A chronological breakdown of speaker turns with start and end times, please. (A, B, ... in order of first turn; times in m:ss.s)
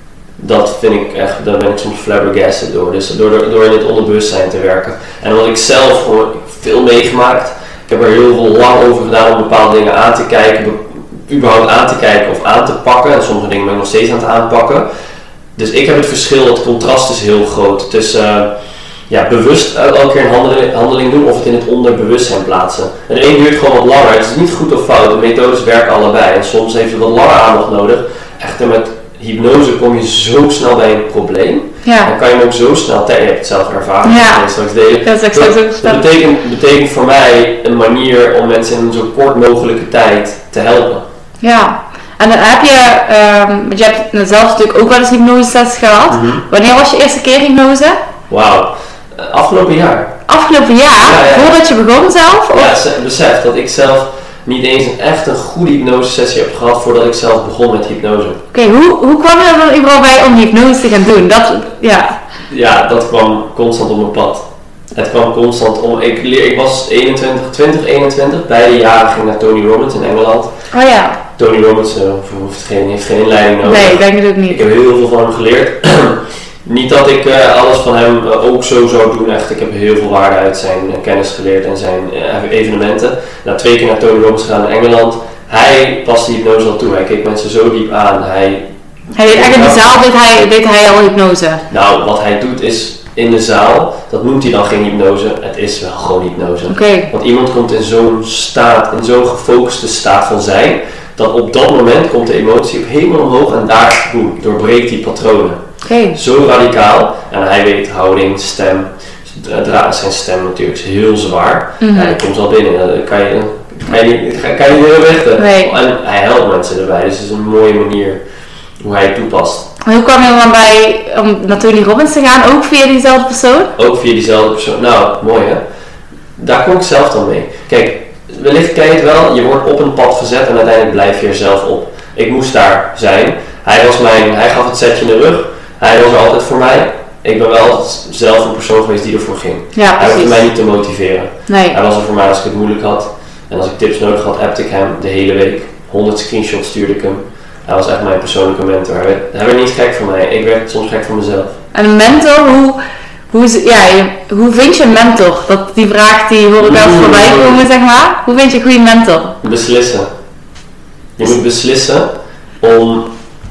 0:00.4-0:14.8 A
0:15.6-0:18.5 A
0:19.1-0:41.0 A
0:31.8-0:32.1 B
0:34.0-0:34.4 B
0:35.0-0:36.0 B
0:41.4-0:48.0 B
0:46.1-0:46.4 A
0:48.3-0:50.1 A
0:50.3-0:52.7 B
0:51.0-0:51.6 A
0:52.5-0:58.4 A
0:58.5-1:02.2 B
1:02.5-1:10.5 A
1:10.7-1:11.2 B
1:11.4-1:28.6 A
1:13.6-1:14.6 B
1:29.1-1:31.6 B
1:29.2-1:29.9 A
1:31.7-1:45.6 A
1:36.7-1:37.1 B
1:45.8-1:46.2 B
1:46.1-1:58.2 A
1:51.8-1:52.2 B
1:55.4-1:55.7 B
1:58.8-1:59.7 A
1:59.8-2:03.7 B
2:03.8-2:05.6 A
2:06.4-2:31.6 A
2:19.7-2:20.4 B
2:21.5-2:21.8 B
2:31.7-2:32.8 B
2:33.3-2:39.4 B
2:36.6-2:37.6 A
2:39.4-2:40.1 A
2:41.2-2:42.1 A
2:42.6-2:43.1 A